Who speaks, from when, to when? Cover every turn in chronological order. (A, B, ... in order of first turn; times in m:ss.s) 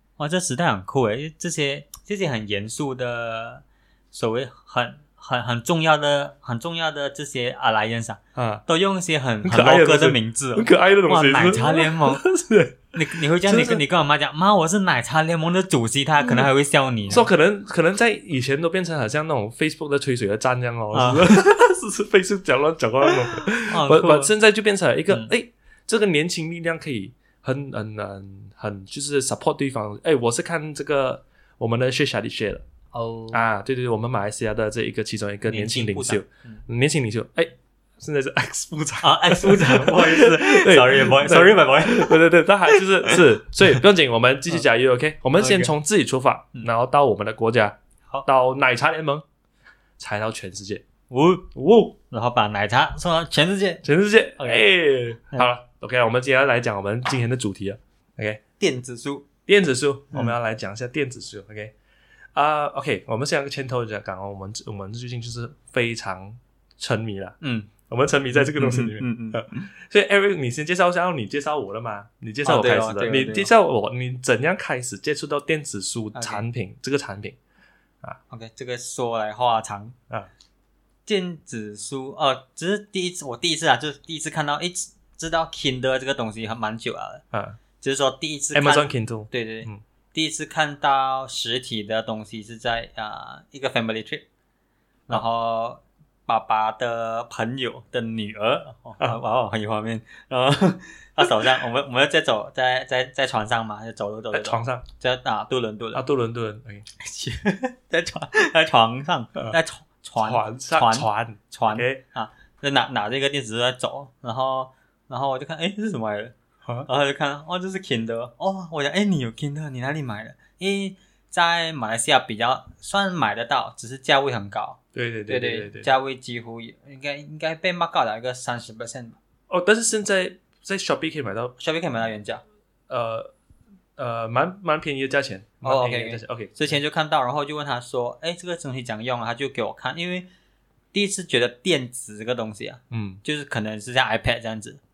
0:00.2-0:12.3 A
0:08.4-0:08.6 B
0:09.4-0:13.8 B
0:13.0-0:17.3 A
0:16.2-0:16.5 B
0:17.1-0:32.6 B
0:20.9-0:21.5 A
0:23.3-0:24.3 A
0:32.9-0:33.4 A
0:33.3-0:49.2 B
0:35.5-0:36.6 A
0:39.0-0:43.8 A
0:45.4-0:45.7 A
0:50.0-0:50.8 B
0:51.1-0:51.5 A
0:51.5-0:52.0 B
0:52.1-0:53.8 A
0:53.8-0:58.4 B
0:54.4-0:54.7 A
0:58.6-0:59.3 A
0:59.5-1:01.7 B
1:02.4-1:17.4 B
1:07.4-1:07.7 A
1:08.3-1:09.7 A
1:12.4-1:13.5 A
1:16.2-1:16.4 A
1:18.3-1:20.0 A
1:21.1-1:27.2 A
1:27.3-1:27.6 B
1:27.8-1:34.2 A
1:28.5-1:29.8 B
1:35.1-1:46.0 A
1:44.3-1:44.8 B
1:45.9-1:46.8 B
1:47.0-1:56.4 A
1:50.2-1:52.0 B
1:56.9-2:09.2 A
2:05.0-2:05.9 B
2:09.5-2:11.6 B
2:11.6-2:12.4 A
2:12.9-2:13.3 B
2:14.0-2:16.7 B
2:15.6-2:20.3 A
2:20.9-2:24.8 A
2:22.9-2:23.2 B